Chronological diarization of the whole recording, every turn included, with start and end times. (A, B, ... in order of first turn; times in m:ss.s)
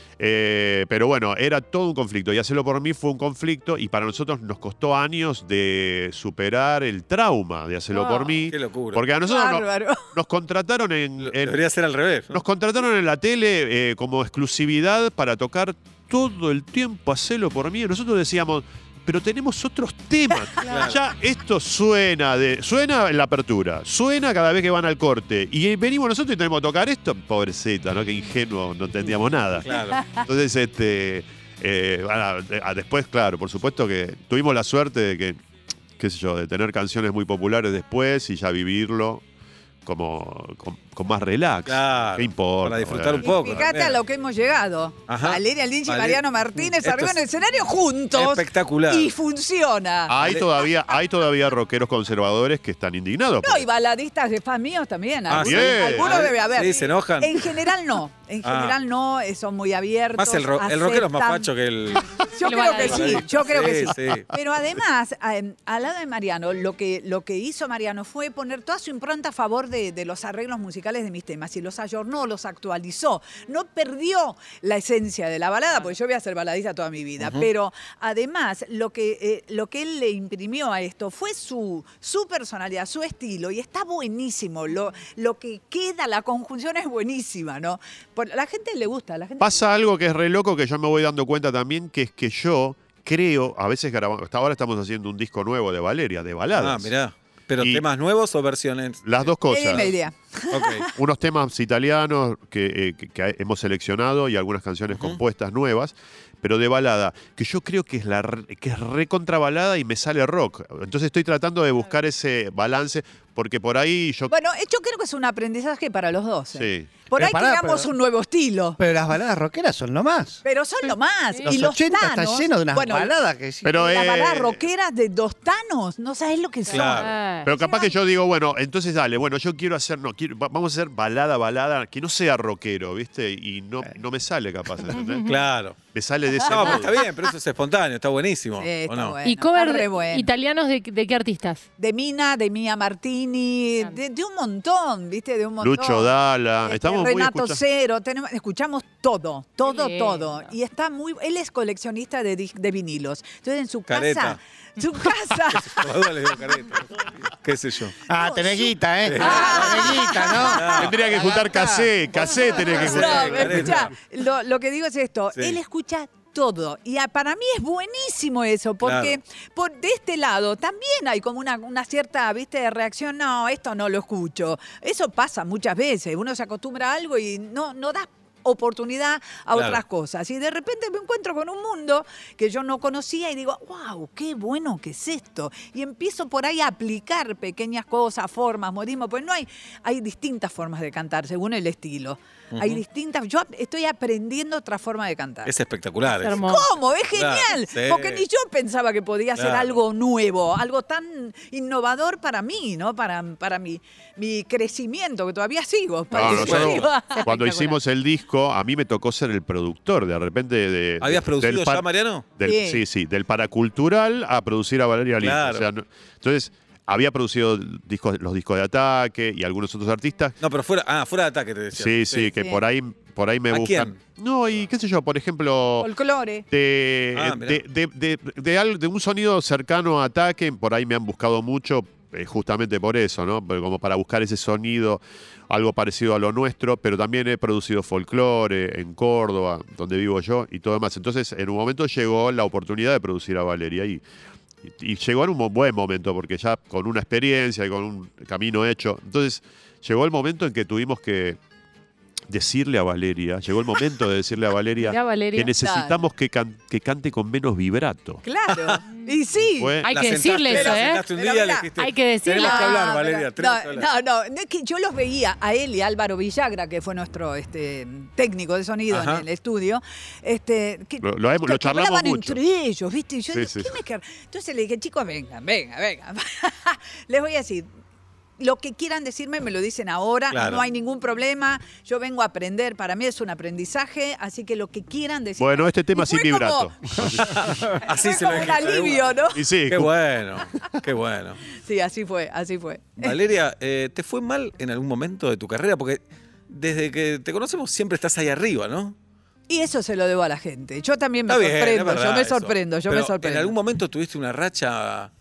0:00.2-0:11.6 A
0:08.4-0:09.0 B
0:09.2-0:10.1 C
0:11.2-0:12.4 B
0:12.3-0:35.4 A
0:20.7-0:21.0 B
0:29.6-0:30.0 B
0:29.7-0:30.2 C
0:36.0-0:39.2 A
0:39.8-0:43.6 A
0:41.7-0:44.0 B
0:43.2-0:50.2 C
0:45.1-0:47.2 B
0:48.1-0:49.1 B
0:50.1-0:53.7 A
0:53.4-1:01.5 C
0:55.3-0:57.7 B
0:55.3-0:56.3 A
0:58.4-0:58.8 B
1:00.2-1:02.1 B
1:02.2-1:29.6 C
1:02.4-1:03.3 D
1:02.7-1:04.3 B
1:17.2-1:17.5 B
1:29.4-1:36.9 A
1:36.5-1:39.9 B
1:37.6-1:37.8 A
1:39.0-1:39.9 A
1:39.5-1:40.9 C
1:40.5-1:40.8 B
1:40.9-1:54.3 A
1:44.9-1:45.2 B
1:54.3-1:58.8 C
1:56.5-1:56.9 A
1:57.1-1:57.9 E
1:58.8-2:00.4 E
2:00.4-2:03.1 C
2:01.5-2:03.7 E
2:03.6-2:04.6 A
2:03.7-2:07.9 C
2:06.7-2:07.1 B
2:06.7-2:07.5 D
2:07.4-2:15.2 A
2:14.9-2:15.4 D
2:15.2-2:15.8 B
2:15.9-2:16.9 A
2:16.4-2:19.2 B
2:18.6-2:20.3 C
2:19.2-2:21.6 D
2:21.8-2:26.1 C
2:25.6-2:27.6 A
2:26.6-2:35.9 C
2:29.6-2:30.5 D
2:33.9-2:34.4 B
2:35.5-2:38.0 B
2:38.1-2:41.9 E
2:38.1-2:40.9 C
2:39.0-2:41.0 B
2:40.8-2:43.9 A
2:42.6-3:15.5 C
2:42.6-2:43.9 B
2:48.8-2:49.2 B
2:59.5-2:59.8 B
3:12.5-3:12.8 B
3:15.4-3:16.4 B
3:16.2-3:16.7 D
3:16.3-3:27.4 C
3:17.1-3:18.2 B
3:19.4-3:19.8 B
3:26.1-3:31.8 A
3:26.1-3:26.9 B
3:27.2-3:27.7 D
3:31.0-3:32.2 B
3:32.4-3:40.3 A
3:32.4-3:32.8 C
3:35.2-3:35.6 B
3:40.4-3:42.3 B
3:41.7-3:45.9 A
3:42.3-3:42.6 C
3:43.5-3:44.0 B
3:45.8-3:46.4 C
3:46.5-4:04.0 A
3:47.1-3:47.6 B
4:04.6-4:11.4 A
4:12.3-4:18.2 A
4:14.8-4:15.5 D
4:15.6-4:16.0 C
4:18.2-4:19.8 C
4:18.5-4:18.8 B
4:18.9-4:19.2 D
4:19.4-4:19.9 A
4:19.8-4:21.0 D
4:19.9-4:23.9 B
4:20.5-4:21.7 C
4:21.8-4:22.8 D
4:22.4-4:37.7 C
4:28.9-4:29.2 B
4:31.0-4:32.4 A
4:33.3-4:33.8 A
4:38.4-4:49.4 C
4:40.3-4:40.6 B
4:45.4-4:47.6 A
4:47.2-4:49.2 B
4:49.3-4:49.9 A
4:49.7-4:51.4 B
4:51.6-4:53.2 C
4:53.0-4:59.0 B
4:59.5-5:03.5 C
5:01.3-5:05.1 B